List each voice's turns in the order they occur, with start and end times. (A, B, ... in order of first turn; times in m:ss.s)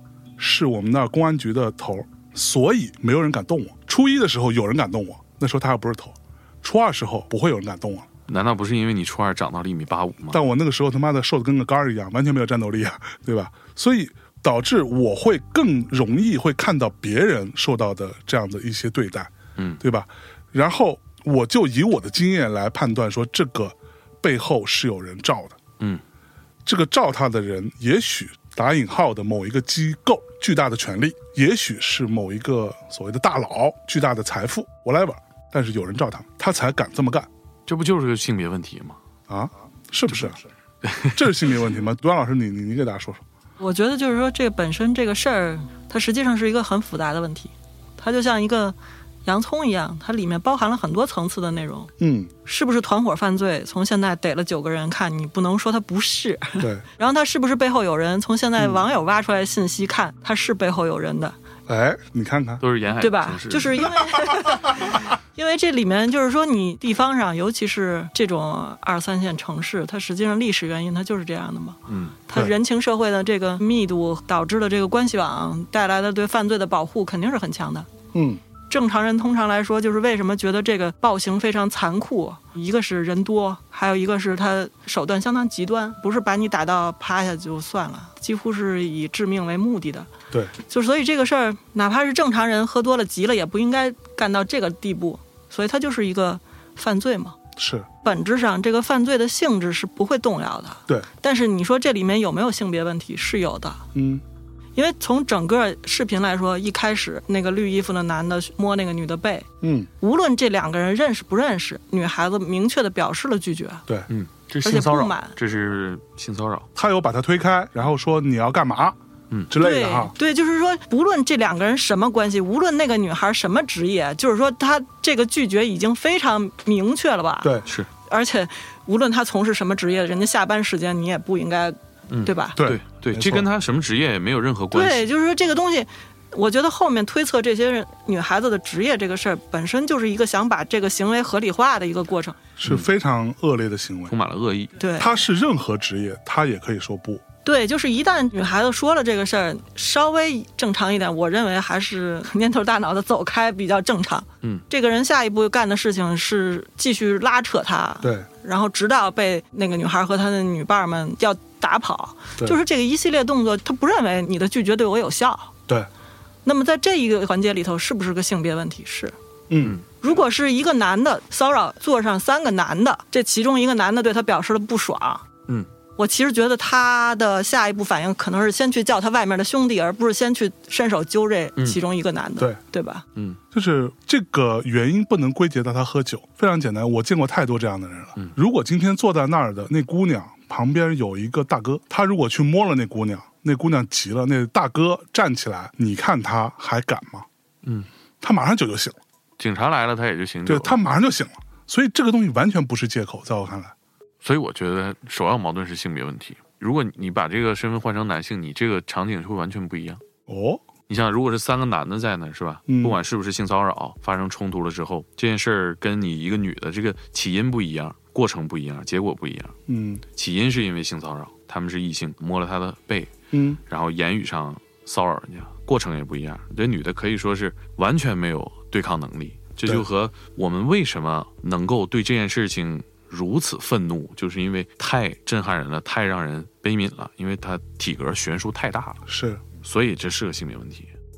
0:00.4-0:08.1 A
0:08.3-0:10.4 B
0:10.3-0:25.6 A
0:26.6-0:37.3 A
0:37.7-0:39.0 B
0:39.3-0:40.4 A
0:40.8-0:41.2 B
0:41.1-0:43.2 A
0:43.6-0:51.9 C
0:52.0-0:52.3 A
0:52.4-1:01.4 C
0:56.6-0:56.8 A
1:01.7-1:02.6 A
1:02.6-1:03.9 B
1:03.0-1:17.9 C
1:11.9-1:12.2 B
1:18.1-1:18.4 A
1:18.7-1:37.4 C
1:37.6-1:37.9 A
1:38.0-1:43.8 C
1:43.9-1:44.2 A
1:44.7-1:49.5 C
1:49.6-1:49.9 A
1:50.0-1:53.8 C
1:54.1-1:56.7 B
1:54.6-1:55.4 C
1:56.7-1:59.0 A
1:59.5-2:00.1 A
1:59.6-2:07.5 C
2:07.4-2:07.7 A
2:08.1-2:12.6 C
2:12.1-2:15.1 B
2:12.6-2:13.4 A
2:14.7-2:22.4 C
2:22.6-2:24.1 A
2:24.1-2:24.7 B
2:24.8-2:25.1 C
2:25.0-2:27.2 A
2:27.4-2:45.5 C
2:46.4-2:49.1 C
2:49.5-2:49.8 A
2:50.0-2:55.2 C
2:56.0-3:03.0 C
3:03.5-3:17.2 A
3:18.2-3:19.0 A
3:19.4-3:20.8 B
3:20.4-3:23.7 A
3:24.2-3:30.0 B
3:30.3-3:30.6 A
3:30.9-3:39.5 B
3:32.7-3:33.0 A
3:39.7-3:40.0 A
3:40.2-3:43.1 B
3:43.3-3:43.6 A
3:43.7-3:59.0 B
3:59.1-3:59.4 A
3:59.6-4:00.9 B